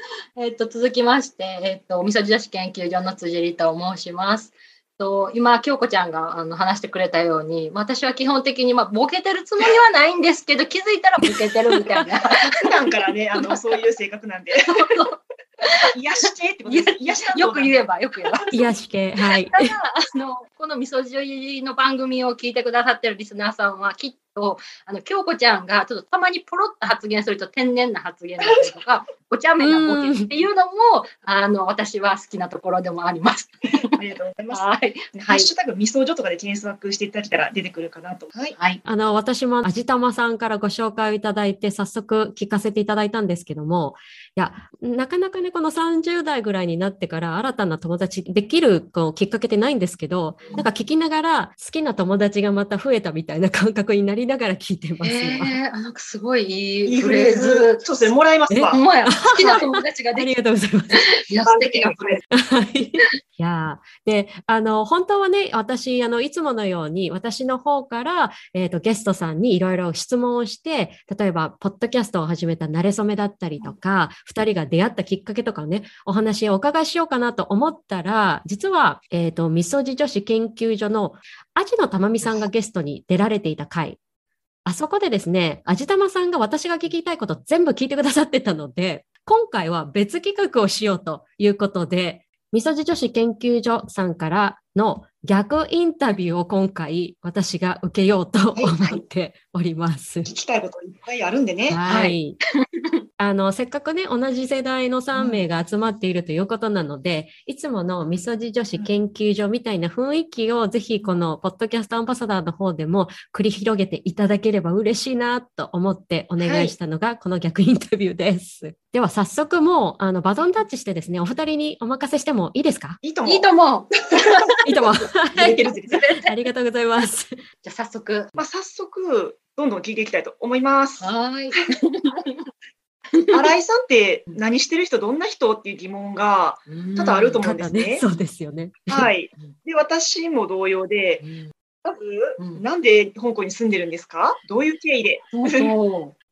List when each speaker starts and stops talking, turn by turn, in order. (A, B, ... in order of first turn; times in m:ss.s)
0:00.4-0:12.7 A
0:11.2-0:12.0 B
0:12.4-0:15.0 C
0:13.3-0:13.8 A
0:14.7-0:15.9 A
0:15.8-0:18.5 C
0:16.6-0:18.7 A
0:18.5-0:19.7 B
0:19.5-0:34.0 A
0:29.6-0:30.3 B
0:33.9-0:38.6 C
0:34.5-0:35.5 A
0:38.6-0:38.8 A
0:38.8-0:55.6 B
0:50.4-0:50.7 A
0:55.0-0:57.8 A
0:56.9-0:58.8 C
0:58.5-1:01.1 B
0:58.7-1:00.3 A
1:00.9-1:02.1 A
1:01.4-1:02.2 C
1:02.3-1:24.0 B
1:24.6-1:40.3 B
1:38.6-1:39.0 C
1:40.2-1:41.8 C
1:41.7-1:42.4 B
1:41.9-1:42.8 A
1:43.2-2:03.0 B
1:45.2-1:45.4 C
1:56.4-1:56.7 A
2:03.0-2:03.5 C
2:03.2-2:04.6 A
2:04.1-2:04.5 C
2:04.6-2:07.4 B
2:05.3-2:06.0 C
2:05.9-2:06.3 A
2:07.6-2:08.4 A
2:08.4-2:11.1 C
2:11.0-2:12.4 A
2:13.1-2:13.4 A
2:13.3-2:18.0 C
2:16.7-2:17.4 A
2:17.4-2:19.1 B
2:18.9-2:21.2 C
2:21.2-2:21.5 A
2:21.8-2:25.7 C
2:22.4-2:22.6 A
2:25.3-2:26.1 A